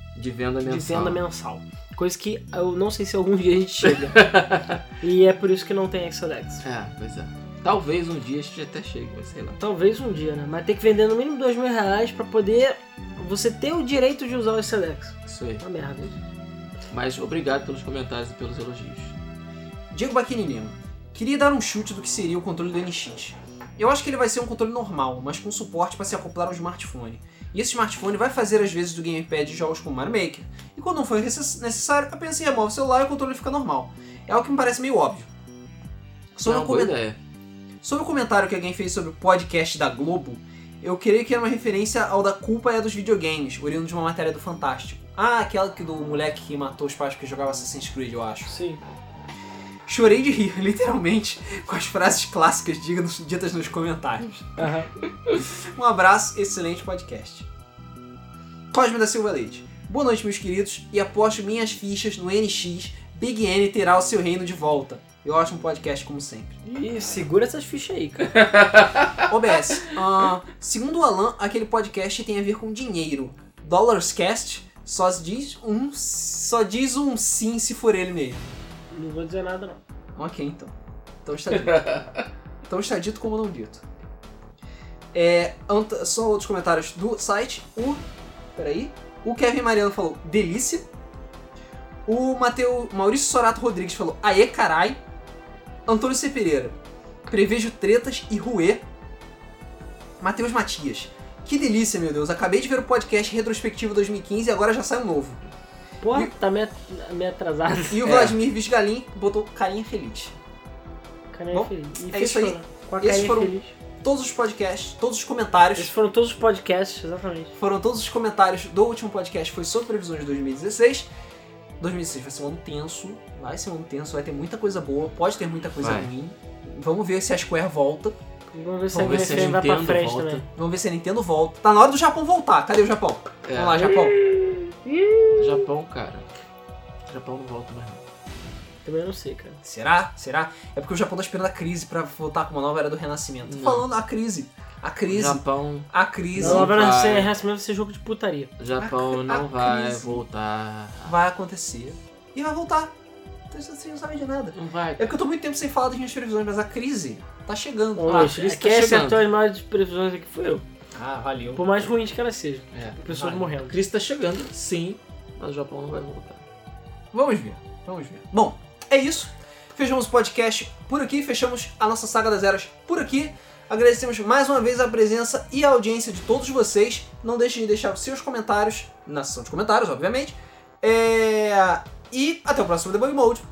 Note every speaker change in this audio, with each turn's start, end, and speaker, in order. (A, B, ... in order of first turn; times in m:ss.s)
0:00.1-0:01.2 A
0:00.6-0:04.3 B
0:03.8-0:04.8 A
0:05.0-0:06.6 B
0:06.6-0:09.6 A
0:09.6-0:16.1 B
0:15.2-0:15.6 A
0:16.9-0:19.1 A
0:19.9-0:35.3 C
0:36.3-0:36.9 C
0:36.4-0:37.2 A
0:37.8-0:48.5 C
0:48.5-0:48.8 B
0:49.9-0:54.5 C
0:54.6-0:54.9 B
0:55.3-0:57.5 C
0:58.7-1:06.6 C
1:06.6-1:08.4 B
1:08.4-1:09.2 A
1:09.2-1:18.4 C
1:18.9-1:19.8 B
1:20.2-1:20.7 C
1:21.2-1:22.0 C
1:21.5-1:22.0 A
1:22.6-1:23.8 C
1:25.1-1:28.0 C
1:28.6-1:30.8 C
1:32.0-1:35.0 C
1:35.9-1:36.8 C
1:37.3-1:38.8 C
1:40.2-1:45.4 C
1:46.0-1:48.0 B
1:47.9-1:50.3 C
1:48.0-1:48.3 A
1:51.3-1:53.7 B
1:51.5-1:55.9 C
1:55.8-1:57.5 B
1:57.6-2:01.1 C
2:01.8-2:08.1 C
2:05.8-2:06.1 A
2:08.5-2:10.4 B
2:08.9-2:09.5 C
2:08.9-2:10.4 A
2:10.5-2:14.2 C
2:13.4-2:14.0 A
2:14.0-2:15.6 B
2:15.4-2:16.3 A
2:17.0-2:18.0 A
2:18.8-2:19.6 B
2:19.6-2:26.8 C
2:23.4-2:23.8 A
2:25.1-2:27.3 A
2:26.4-2:28.5 B
2:28.6-2:31.1 A
2:28.8-2:30.2 C
2:31.0-2:32.9 C
2:33.5-2:38.3 C
2:34.5-2:35.1 A
2:38.0-2:40.6 B
2:38.1-2:39.2 A
2:40.9-2:41.6 C
2:41.5-2:43.8 B
2:42.7-2:46.4 A
2:43.1-2:43.4 C
2:47.1-3:03.4 C